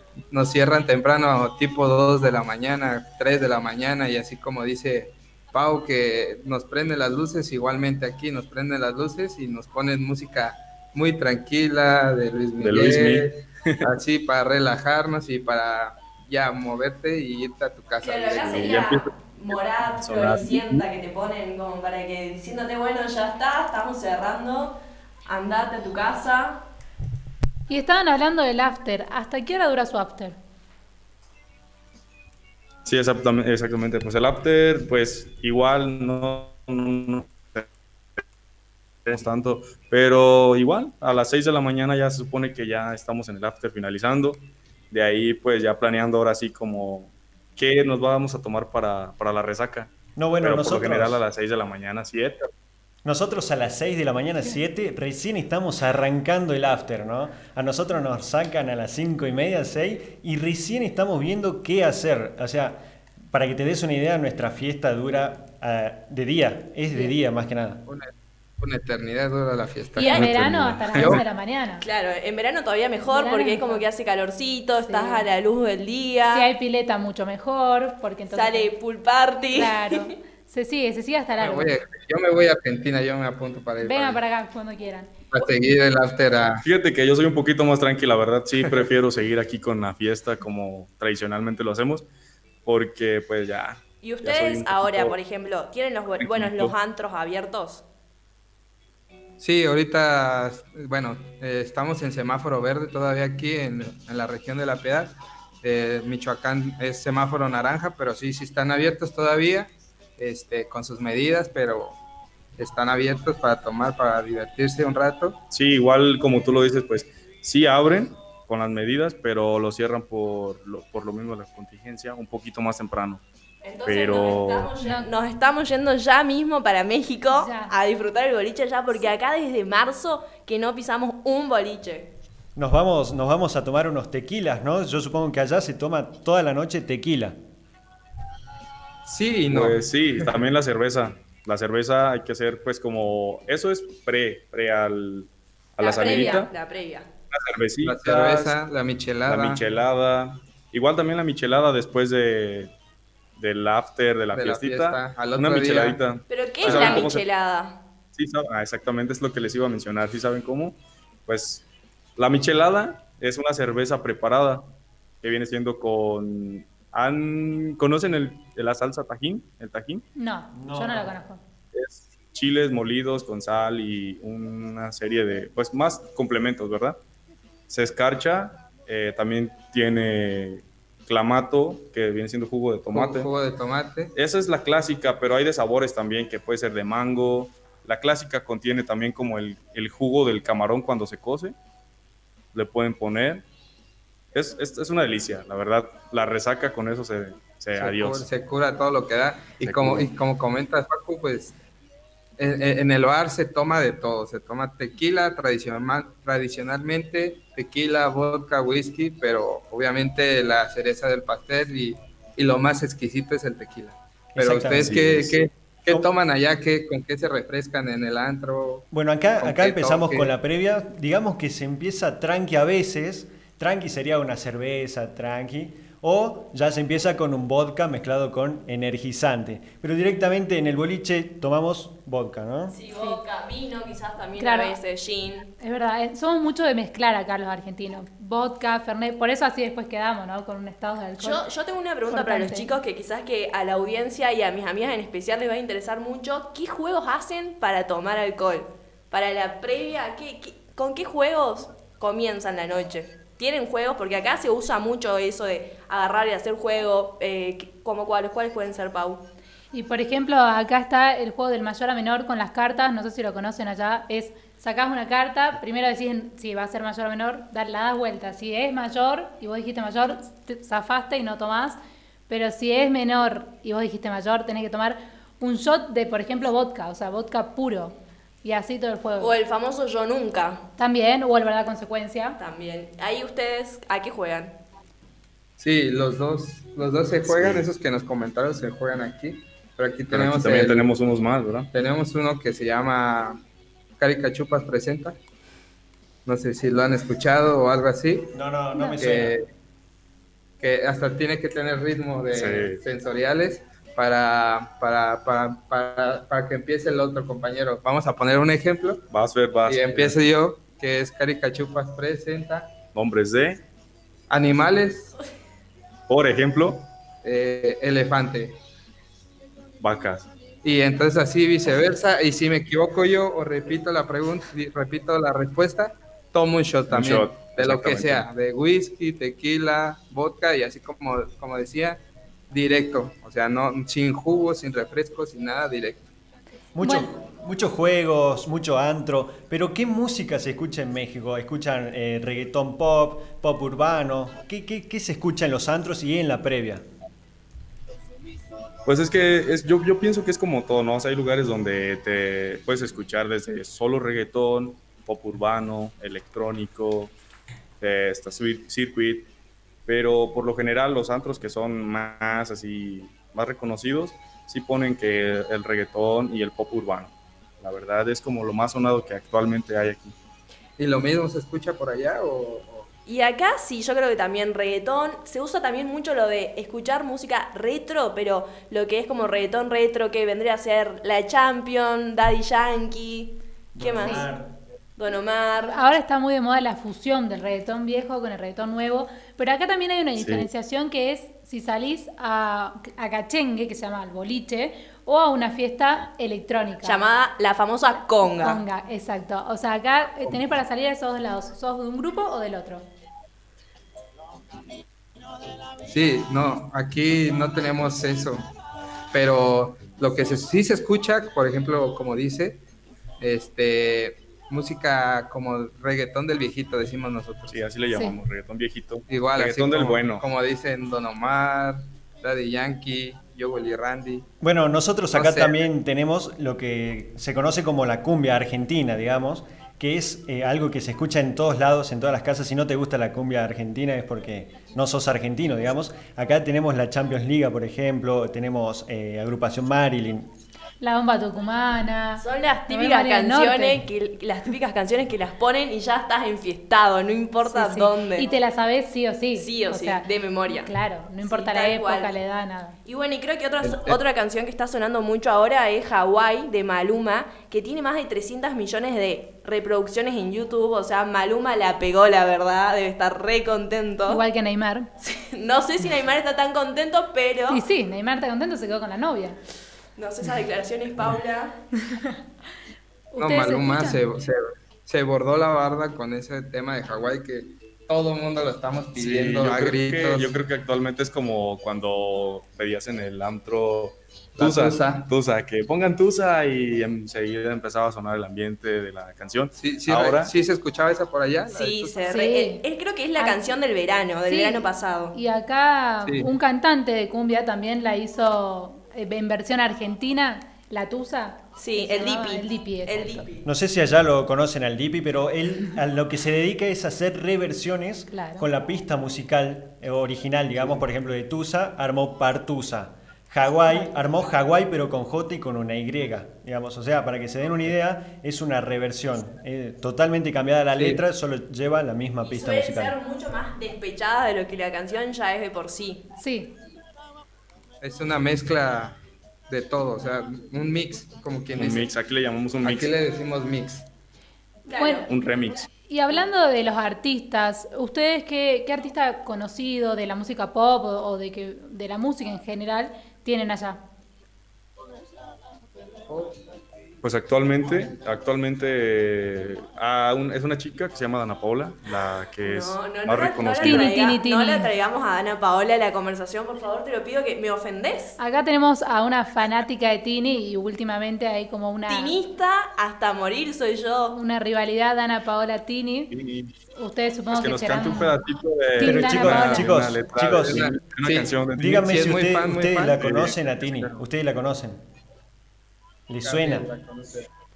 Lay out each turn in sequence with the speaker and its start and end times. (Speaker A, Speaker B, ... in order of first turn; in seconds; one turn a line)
Speaker A: 0.3-18.8
Speaker B: 12.6-13.8
Speaker C: 18.0-26.6
Speaker B: 18.3-20.8
Speaker D: 27.7-30.4
Speaker B: 32.8-37.7
Speaker B: 39.0-52.5
Speaker E: 50.1-51.2
Speaker E: 53.0-67.8
Speaker A: 67.8-70.3
Speaker D: 70.0-71.8
Speaker B: 70.1-71.2
Speaker A: 70.9-71.2
Speaker C: 71.8-76.5
Speaker D: 73.1-73.8
Speaker D: 74.8-75.2
Speaker D: 76.3-78.7
Speaker C: 78.3-80.1
Speaker D: 79.5-81.7
Speaker A: 81.4-84.2
Speaker D: 83.8-85.1
Speaker A: 85.3-86.6
Speaker B: 86.6-92.0
Speaker B: 92.6-95.2
Speaker C: 94.0-97.8
Speaker B: 96.2-96.7
Speaker A: 99.4-112.0
Speaker A: 112.6-115.4
Speaker B: 115.5-123.2
Speaker C: 123.6-132.1
Speaker B: 123.8-124.7
Speaker D: 124.8-125.1
Speaker D: 127.3-127.7
Speaker E: 132.6-137.3
Speaker A: 139.0-140.3
Speaker B: 139.5-146.5
Speaker C: 145.8-147.1
Speaker B: 147.3-148.6
Speaker A: 147.8-149.6
Speaker B: 149.2-152.7
Speaker B: 153.4-157.2
Speaker A: 154.3-156.0
Speaker C: 156.3-157.8
Speaker A: 156.6-157.1
Speaker B: 158.1-161.6
Speaker B: 162.2-170.0
Speaker D: 170.2-171.4
Speaker E: 170.5-171.1
Speaker B: 171.7-177.0
Speaker B: 177.7-183.3
Speaker A: 182.9-184.1
Speaker B: 184.1-191.6
Speaker B: 192.5-193.4
Speaker B: 194.3-198.3
Speaker A: 197.8-201.6
Speaker B: 199.6-200.1
Speaker A: 202.4-218.8
Speaker E: 214.3-215.0
Speaker B: 214.7-215.4
Speaker E: 218.9-232.8
Speaker A: 219.4-220.3
Speaker C: 232.7-235.5
Speaker D: 234.4-234.8
Speaker D: 235.6-241.4
Speaker C: 241.2-259.2
Speaker D: 242.1-242.7
Speaker D: 259.7-271.8
Speaker D: 272.3-279.3
Speaker C: 279.2-280.6
Speaker D: 280.8-282.4
Speaker C: 282.4-284.6
Speaker A: 285.6-290.9
Speaker B: 287.2-287.7
Speaker B: 290.1-291.7
Speaker A: 291.7-293.4
Speaker A: 294.0-295.2
Speaker A: 296.2-298.3
Speaker E: 298.3-299.3
Speaker D: 298.7-299.1
Speaker A: 298.9-299.4
Speaker A: 300.6-309.1
Speaker B: 302.3-302.8
Speaker B: 309.1-310.2
Speaker A: 309.7-312.7
Speaker B: 312.9-313.6
Speaker A: 314.3-315.1
Speaker B: 316.1-316.9
Speaker A: 317.2-318.6
Speaker B: 319.8-320.3
Speaker A: 320.6-336.1
Speaker B: 326.9-328.3
Speaker E: 336.7-346.8
Speaker D: 336.8-337.1
Speaker B: 348.8-357.1
Speaker B: 357.8-359.3
Speaker B: 359.9-370.1
Speaker A: 370.8-372.9
Speaker C: 373.1-384.2
Speaker E: 383.7-384.5
Speaker D: 384.0-384.3
Speaker C: 385.0-385.8
Speaker D: 385.7-397.0
Speaker B: 390.2-390.4
Speaker C: 396.8-398.6
Speaker D: 398.4-402.9
Speaker A: 405.9-408.5
Speaker A: 409.1-412.6
Speaker A: 413.2-417.6
Speaker B: 417.5-420.2
Speaker A: 419.1-424.3
Speaker E: 424.4-440.3
Speaker A: 425.1-425.6
Speaker D: 440.8-443.8
Speaker C: 442.2-448.4
Speaker D: 447.5-452.8
Speaker C: 449.4-450.7
Speaker C: 451.2-452.1
Speaker C: 452.8-464.2
Speaker A: 453.6-454.0
Speaker D: 464.1-464.9
Speaker C: 465.0-467.6
Speaker D: 467.5-469.4
Speaker C: 469.9-471.6
Speaker D: 473.1-474.0
Speaker A: 473.2-480.3
Speaker B: 478.9-490.4
Speaker A: 484.4-485.1
Speaker A: 489.6-492.0
Speaker C: 491.5-495.1
Speaker D: 492.1-492.6
Speaker D: 493.1-493.5
Speaker D: 494.2-503.2
Speaker A: 496.0-496.3
Speaker C: 501.6-503.4
Speaker E: 503.4-523.0
Speaker D: 508.1-508.4
Speaker A: 520.7-521.0
Speaker C: 522.2-526.0
Speaker D: 526.2-526.5
Speaker A: 527.8-529.0
Speaker A: 529.5-531.9
Speaker B: 531.5-533.0
Speaker A: 532.6-533.9
Speaker C: 534.6-535.1
Speaker D: 534.7-535.0
Speaker B: 535.1-535.7
Speaker D: 535.9-543.8
Speaker A: 546.1-546.4
Speaker B: 547.0-553.9
Speaker C: 552.4-558.2
Speaker D: 553.6-554.7
Speaker D: 558.2-562.1
Speaker C: 561.9-564.1
Speaker D: 564.1-566.1
Speaker B: 566.1-566.5
Speaker D: 566.8-568.2
Speaker B: 567.3-571.9
Speaker D: 568.8-569.7
Speaker E: 568.8-570.7
Speaker A: 570.3-573.7
Speaker E: 571.6-574.8
Speaker B: 572.9-573.9
Speaker E: 576.1-576.7
Speaker A: 576.2-577.3